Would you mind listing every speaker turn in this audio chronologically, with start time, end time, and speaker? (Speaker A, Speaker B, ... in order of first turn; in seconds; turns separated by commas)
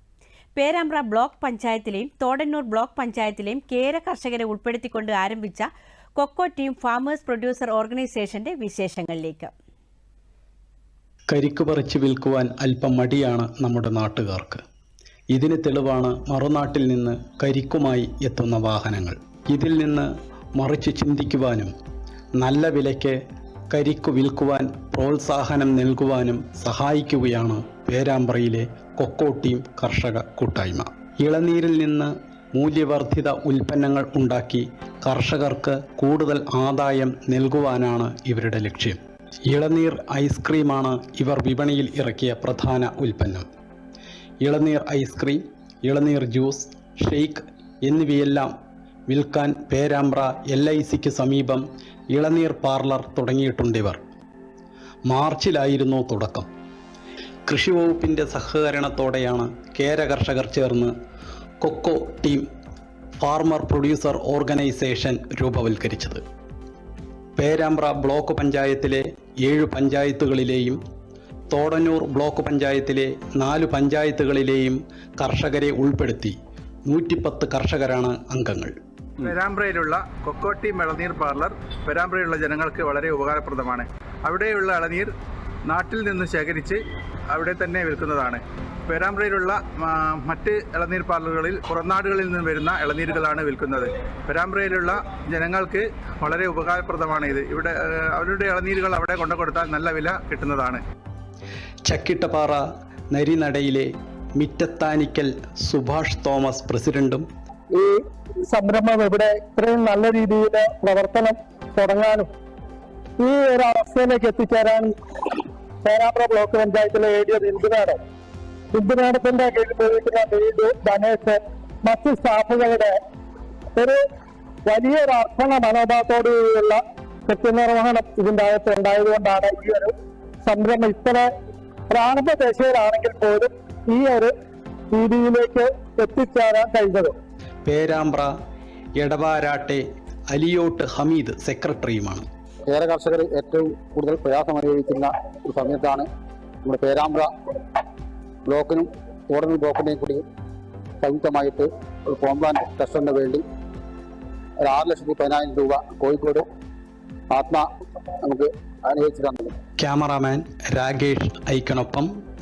Speaker A: 0.6-9.5, Speaker B: 11.3-14.6, Speaker B: 15.3-21.7, Speaker B: 22.4-23.2, Speaker B: 23.7-43.4, Speaker B: 44.4-48.5, Speaker B: 49.1-54.0, Speaker B: 55.1-56.5, Speaker B: 57.5-60.9, Speaker B: 61.6-62.4, Speaker B: 63.2-66.2, Speaker B: 67.4-70.8, Speaker B: 71.5-76.3, Speaker B: 76.9-78.7, Speaker C: 79.2-85.1, Speaker C: 85.7-86.8, Speaker C: 87.3-100.8, Speaker B: 101.8-107.2, Speaker D: 107.7-112.3, Speaker D: 113.2-114.9, Speaker D: 115.8-118.0, Speaker D: 118.7-123.0, Speaker D: 123.7-124.0, Speaker D: 124.6-131.3, Speaker D: 131.9-134.3, Speaker D: 134.9-137.1, Speaker B: 137.6-138.3, Speaker B: 139.0-142.2, Speaker E: 142.7-146.1, Speaker E: 146.6-147.3, Speaker E: 148.4-150.2, Speaker E: 151.0-153.4, Speaker E: 154.6-156.4, Speaker E: 157.3-157.7, Speaker E: 158.2-159.5, Speaker B: 159.8-162.1